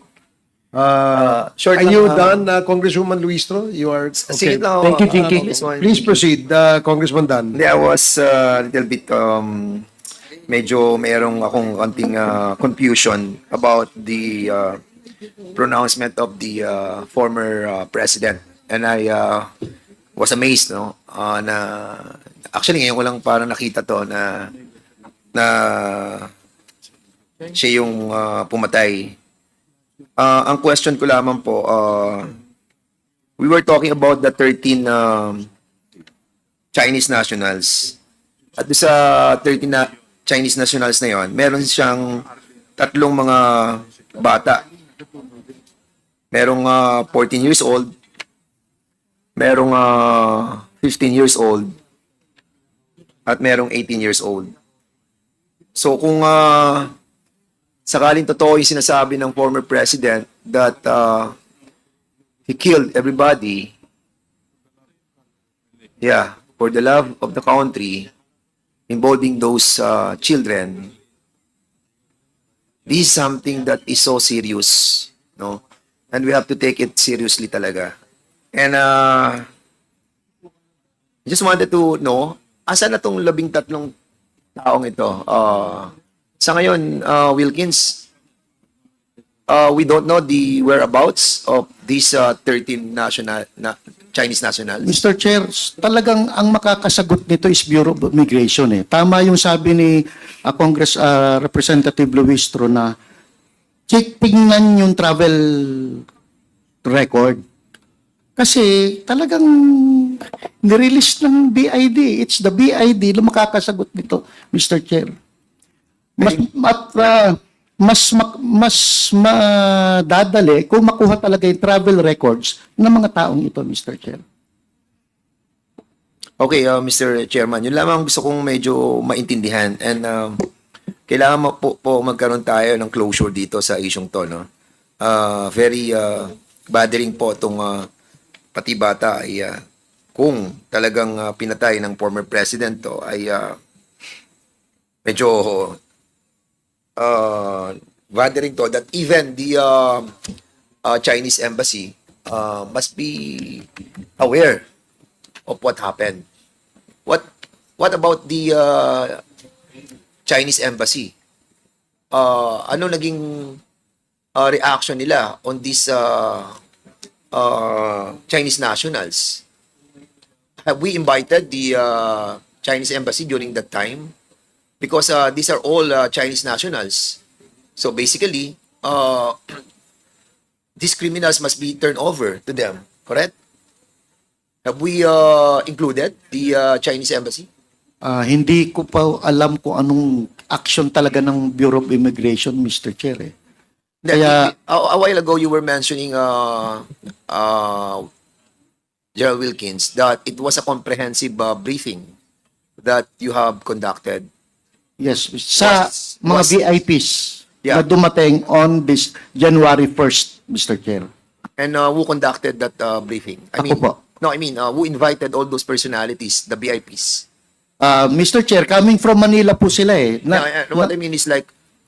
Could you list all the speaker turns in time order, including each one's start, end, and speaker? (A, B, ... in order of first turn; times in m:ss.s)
0:00.7-0:07.6 A
0:01.1-0:02.3 B
0:04.2-0:06.2 B
0:07.5-0:09.9 B
0:10.5-0:14.8 B
0:15.5-0:19.5 B
0:20.2-0:24.5 B
0:25.4-0:26.3 B
0:27.5-0:29.2 B
0:30.2-0:32.3 B
0:33.4-0:35.5 B
0:36.7-0:38.0 B
0:38.6-0:42.3 B
0:42.8-0:44.6 B
0:46.3-0:47.9 B
0:49.4-0:51.8 B
0:53.3-0:54.5 B
0:55.8-0:56.9 B
0:57.9-1:01.4 B
1:02.5-1:03.7 B
1:06.0-1:08.1 B
1:08.9-1:10.9 B
1:12.9-1:15.6 B
1:16.1-1:17.9 B
1:18.5-1:19.4 B
1:21.3-1:23.9 B
1:24.6-1:28.1 B
1:29.5-1:35.0 B
1:34.8-1:42.9 C
1:43.9-1:46.0 C
1:46.8-1:47.4 C
1:48.4-1:55.1 C
1:56.2-2:04.2 C
2:06.4-2:10.5 B
2:11.1-2:14.5 B
2:15.0-2:17.9 B
2:18.6-2:19.6 B
2:20.2-2:23.6 B
2:25.1-2:25.8 B
2:27.0-2:30.1 B
2:30.8-2:33.7 B
2:34.2-2:34.6 B
2:35.5-2:36.2 B
2:37.1-2:39.2 B
2:40.3-2:41.1 B
2:42.1-2:43.6 B
2:44.4-2:46.5 B
2:47.3-2:49.4 B
2:50.6-2:54.1 B
2:54.8-2:57.2 B
2:57.8-2:59.6 B
3:00.8-3:03.3 B
3:04.6-3:07.5 B
3:08.0-3:13.3 C
3:14.0-3:18.1 B
3:14.1-3:14.5 C
3:19.2-3:22.1 B
3:22.8-3:24.3 B
3:25.0-3:31.1 C
3:25.6-3:26.6 B
3:31.6-3:37.2 B
3:33.6-3:34.0 C
3:37.8-3:40.9 C
3:40.3-3:41.5 B